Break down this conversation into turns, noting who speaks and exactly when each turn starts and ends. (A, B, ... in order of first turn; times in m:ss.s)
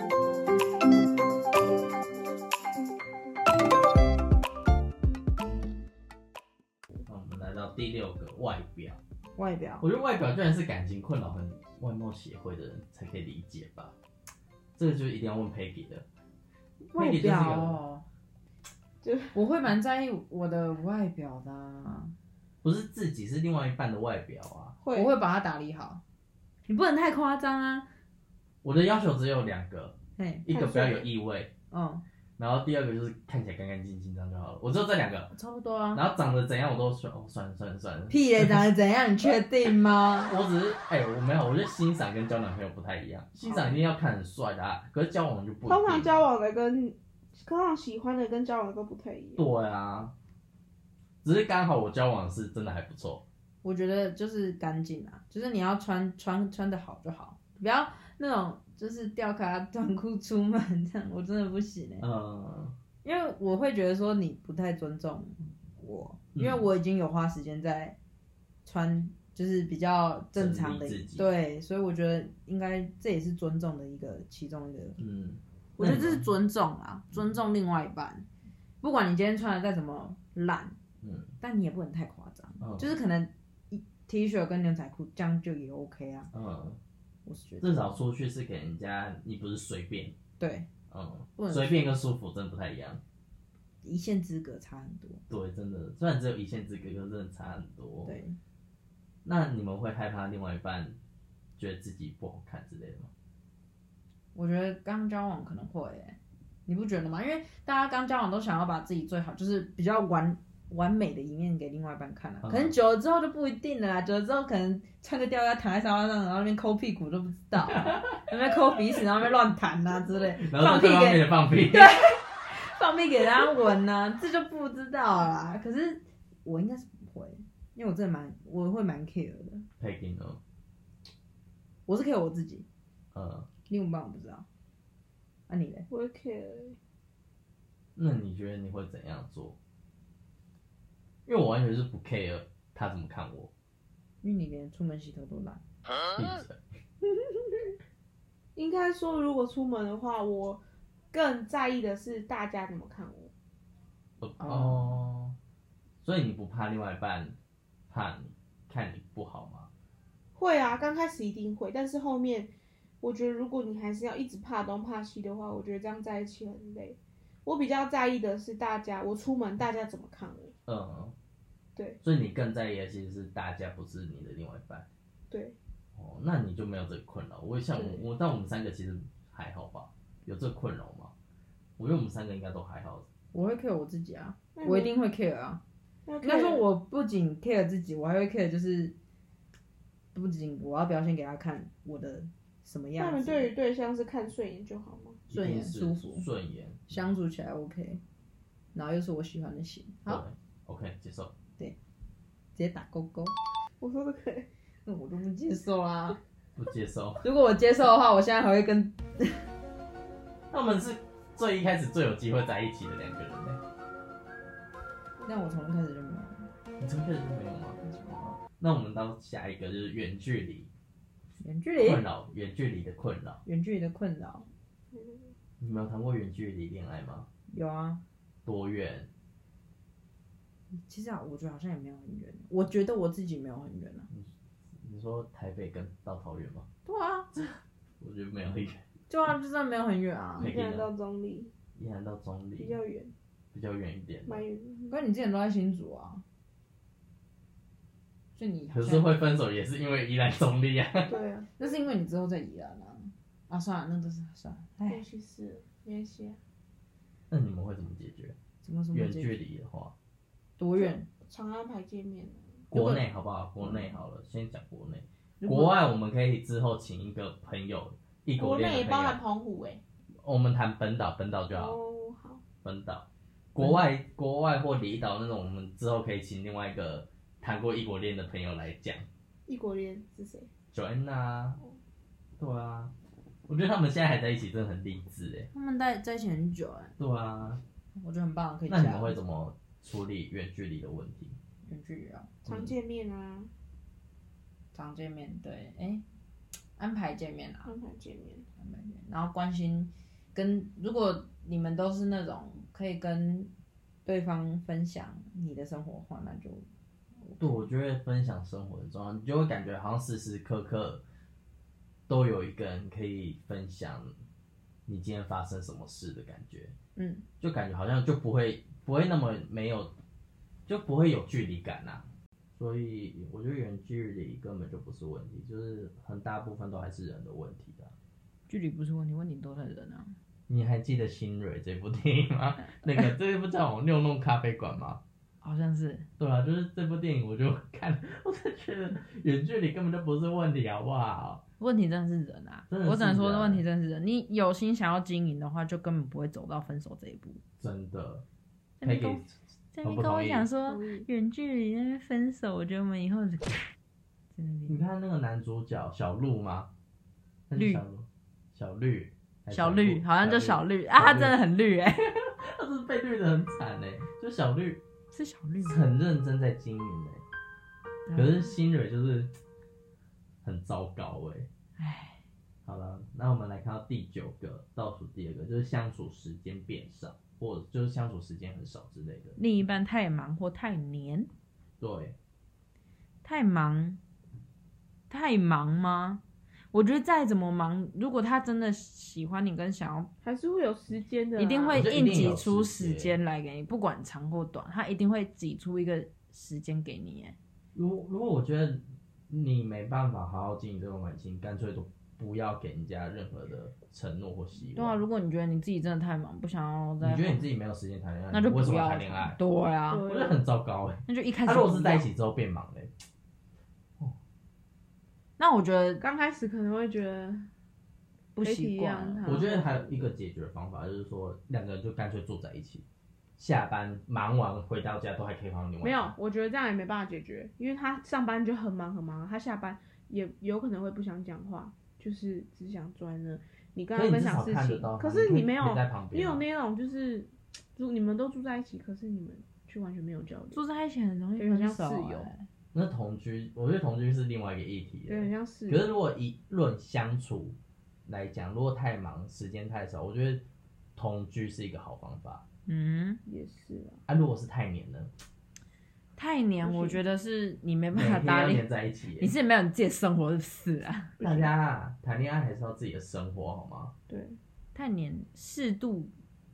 0:07.0-0:09.0 A
0:09.4-0:09.8 B
0:09.8-0:13.9 A
0:14.8-0:16.0 A
0:16.9-0:18.0 B
0:17.0-0:17.8 A
0:19.0-0:19.4 C
0:19.3-0:22.1 B
0:22.6-0:24.8 A
0:24.8-0:25.1 C
0:24.9-0:26.0 B
0:26.7-0:27.9 B
0:28.6-0:31.5 A
0:30.2-0:30.5 B
0:30.5-0:31.0 C
0:31.7-0:32.0 B
0:32.4-0:35.3 A
0:35.3-0:36.0 B
0:35.9-0:38.6 A
0:38.1-0:40.3 B
0:40.2-0:46.2 A
0:43.4-0:43.8 B
0:45.6-0:49.4 C
0:49.4-0:50.1 A
0:51.2-0:53.2 A
0:53.6-1:02.0 B
1:02.0-1:02.8 A
1:03.0-1:08.0 B
1:06.3-1:06.6 A
1:08.6-1:15.0 B
1:10.3-1:11.3 A
1:15.0-1:16.3 A
1:15.8-1:18.2 B
1:18.8-1:20.8 B
1:21.0-1:21.3 A
1:21.4-1:26.3 B
1:22.6-1:22.9 A
1:26.3-1:26.8 A
1:27.2-1:28.0 B
1:27.6-1:30.1 A
1:30.4-1:30.7 B
1:30.9-1:33.0 A
1:31.4-1:31.8 B
1:33.8-1:35.2 B
1:35.3-1:38.1 A
1:38.0-1:38.4 B
1:39.2-1:41.0 A
1:41.6-1:43.1 A
1:44.3-2:09.7 B
1:52.4-1:52.7 A
2:00.4-2:02.0 A
2:09.8-2:10.4 A
2:11.8-2:12.6 B
2:13.1-2:13.5 A
2:13.7-2:14.4 B
2:15.5-2:15.9 B
2:15.9-2:16.8 C
2:18.0-2:19.6 A
2:21.2-2:23.5 A
2:24.2-2:25.6 B
2:26.1-2:26.6 A
2:28.6-2:30.6 C
2:31.1-2:33.3 C
2:34.2-2:35.4 A
2:34.4-2:35.0 B
2:36.0-2:37.4 A
2:37.9-2:39.7 A
2:40.4-2:50.5 C
2:50.7-2:51.1 A
2:52.0-2:54.8 A
2:55.3-2:55.6 C
2:56.0-3:01.1 A
2:57.7-2:58.0 C
3:01.8-3:03.0 A
3:03.3-3:05.6 B
3:04.5-3:04.9 C
3:06.0-3:06.6 C
3:06.2-3:08.9 B
3:10.1-3:13.5 B
3:13.0-3:15.2 C
3:15.3-3:17.0 A
3:15.3-3:16.3 B
3:16.9-3:18.0 B
3:18.7-3:20.2 B
3:20.1-3:21.3 A
3:22.5-3:23.3 B
3:23.8-3:24.5 C
3:24.8-3:26.2 B
3:26.6-3:27.2 A
3:27.2-3:29.5 B
3:30.5-3:33.6 A
3:35.2-3:36.5 B
3:36.8-3:40.7 A
3:41.4-3:42.0 B
3:41.8-3:43.4 A
3:43.4-3:44.5 B
3:44.9-3:45.3 C
3:45.6-3:47.3 A
3:47.5-3:48.0 B
3:48.4-3:49.1 A
3:50.7-3:54.1 B
3:54.1-3:56.7 A
3:56.8-3:57.3 B
3:57.3-3:58.8 A
3:59.1-4:00.5 B
4:00.4-4:01.5 C
4:00.4-4:00.9 A
4:01.8-4:02.8 A
4:02.6-4:03.1 C
4:03.5-4:04.4 A
4:04.2-4:05.0 C
4:04.9-4:06.2 B
4:08.3-4:09.2 B
4:08.7-4:11.2 A
4:11.0-4:11.5 C
4:11.6-4:15.0 B
4:14.9-4:16.4 C
4:17.3-4:18.4 A
4:18.6-4:19.4 B
4:18.9-4:19.9 A
4:20.6-4:21.1 B
4:20.7-4:23.0 C
4:22.7-4:29.2 A
4:23.6-4:23.9 B
4:25.4-4:25.8 B
4:28.4-4:29.8 C
4:30.2-4:31.8 A
4:31.5-4:32.4 C
4:32.6-4:39.0 A
4:33.6-4:33.8 B
4:39.5-4:40.5 C
4:40.7-4:41.6 A
4:42.4-4:42.9 A
4:43.5-4:45.5 A
4:45.5-4:46.9 B
4:47.0-4:47.6 A
4:48.0-4:49.2 B
4:48.7-4:51.4 A
4:51.6-4:52.3 B
4:52.4-4:53.5 C
4:52.4-4:52.7 A
4:54.7-4:56.0 B
4:56.8-4:57.7 B
4:57.6-4:58.4 C
4:58.6-5:03.5 B
5:04.0-5:06.7 B
5:07.2-5:07.5 B
5:07.4-5:11.0 A
5:12.1-5:14.1 A
5:14.9-5:16.7 A
5:17.0-5:17.2 B
5:17.4-5:19.9 A
5:20.7-5:27.9 A
5:28.5-5:30.1 B
5:30.5-5:35.0 A
5:35.4-5:36.1 B
5:36.2-5:41.4 A
5:41.6-5:47.4 B
5:42.7-5:43.6 A
5:47.6-5:48.2 A
5:48.8-5:53.7 B
5:48.8-5:49.3 A
5:49.8-5:50.5 A
5:50.6-5:51.1 C
5:54.3-5:54.8 B
5:54.7-5:56.7 A
5:57.5-6:01.3 A
5:57.5-5:57.8 B
5:59.5-6:02.2 B
6:02.2-6:04.8 A
6:05.1-6:05.9 B
6:05.6-6:07.2 A
6:08.1-6:08.5 B
6:08.1-6:09.4 A
6:10.4-6:11.5 A
6:11.8-6:12.2 B
6:12.6-6:19.4 A
6:19.4-6:21.3 B
6:21.8-6:22.1 A
6:23.2-6:24.0 B
6:25.1-6:30.1 B
6:30.2-6:31.8 C
6:31.4-6:37.4 B
6:31.7-6:33.2 A
6:37.7-6:45.0 A
6:44.7-6:47.4 B
6:47.0-6:49.4 A
6:48.3-6:50.0 B
6:49.9-6:50.4 C
6:50.0-6:52.9 A
6:51.1-6:52.1 B
6:55.4-6:56.0 B
6:56.0-6:57.5 C
6:58.3-6:59.3 B
6:58.4-7:00.1 C
6:59.2-7:02.8 A
7:03.4-7:06.1 A
7:05.8-7:20.6 C
7:13.9-7:16.4 A
7:20.5-7:22.5 B
7:21.4-7:22.3 C
7:22.7-7:30.4 A
7:25.1-7:25.8 C
7:31.0-7:32.4 A
7:32.6-7:33.2 B
7:33.2-7:34.0 C
7:34.1-7:35.1 A
7:36.2-7:41.2 B
7:36.6-7:37.0 C
7:37.9-7:39.3 A
7:41.2-7:41.5 C
7:41.2-7:43.9 A
7:44.1-7:44.4 C
7:44.7-7:46.1 B